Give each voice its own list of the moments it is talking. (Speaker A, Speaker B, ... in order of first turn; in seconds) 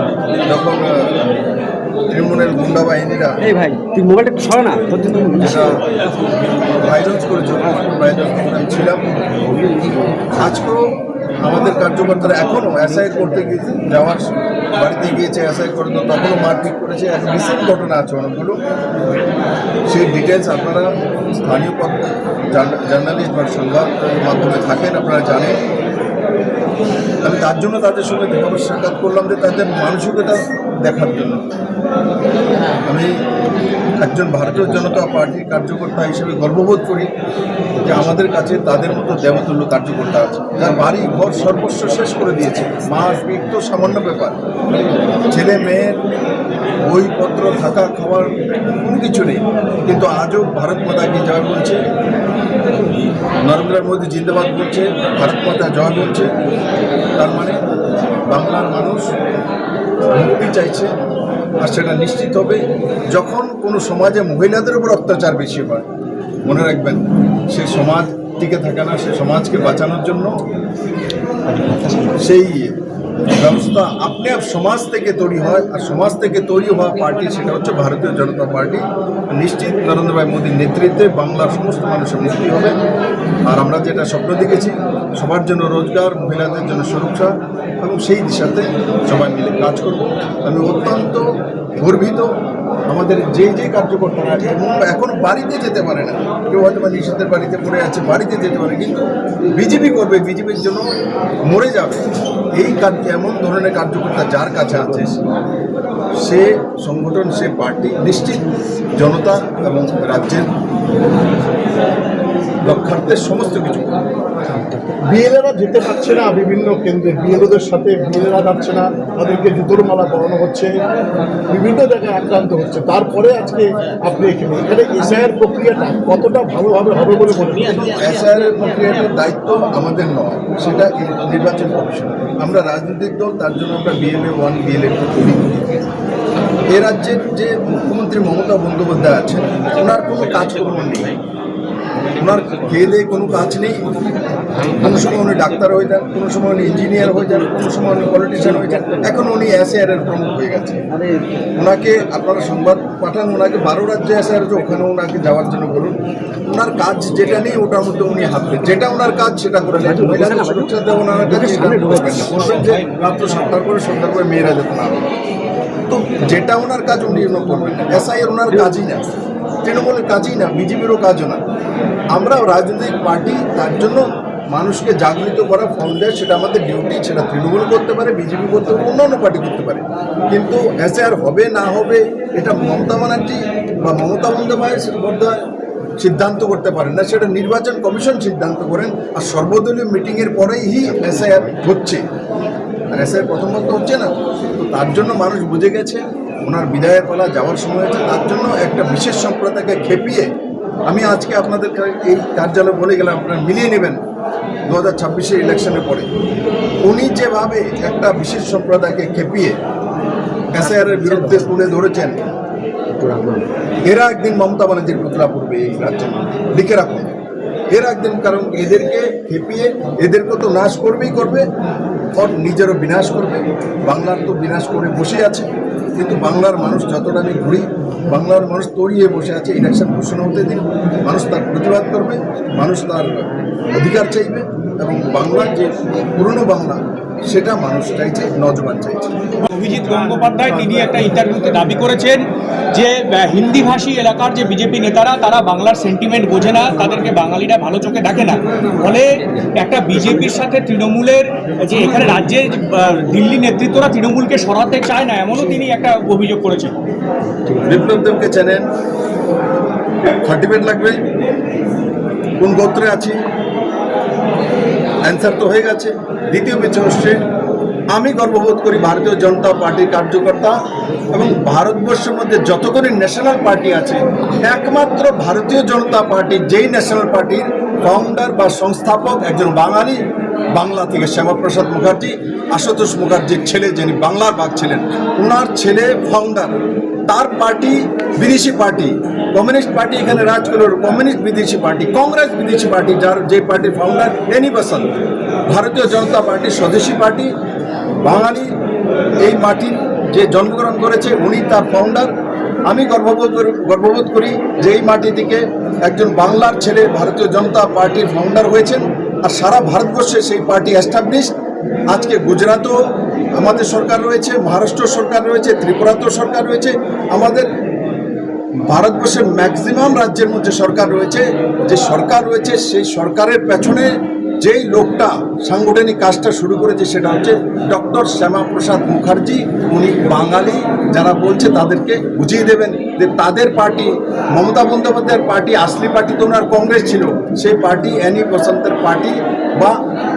Speaker A: 0.4-1.2, 2.1-3.4, 5.4-5.8, 6.7-9.4, 10.3-10.8, 11.4-18.6, 19.9-25.6, 27.2-31.4, 32.8-33.2, 34.0-37.1, 37.8-44.4, 45.3-46.0, 46.9-51.8, 53.4-56.3, 57.1-57.6, 58.3-59.1, 60.1-60.9, 61.6-65.8, 66.4-70.4, 72.1-72.8, 73.3-82.8, 83.5-87.3, 87.8-91.3, 91.8-92.3, 92.9-100.9, 101.5-102.0, 102.6-105.2, 106.2-108.4, 108.9-110.5, 112.6-114.0, 127.6-135.5, 136.7-141.2, 142.1-143.8, 144.7-150.8, 151.6-165.1, 165.9-169.1, 169.6-171.4, 172.1-185.4, 186.0-192.0, 192.9-200.3, 200.8-204.0, 204.7-206.1, 206.8-209.6, 210.5-212.2, 213.9-217.1, 217.7-221.4, 222.2-239.1, 257.5-258.7, 260.1-261.0, 262.4-263.2, 265.1-267.2, 267.9-270.6, 271.1-280.0, 280.5-297.3, 298.0-298.5, 299.2-302.1, 302.7-311.3, 311.9-312.8, 313.3-317.5, 318.6-339.8
Speaker B: 3.4-5.7, 9.6-10.3, 71.5-72.1, 159.8-162.5, 210.6-211.5, 212.9-213.4
Speaker C: 114.7-120.8, 121.5-127.9
Speaker D: 162.2-163.5, 239.4-256.8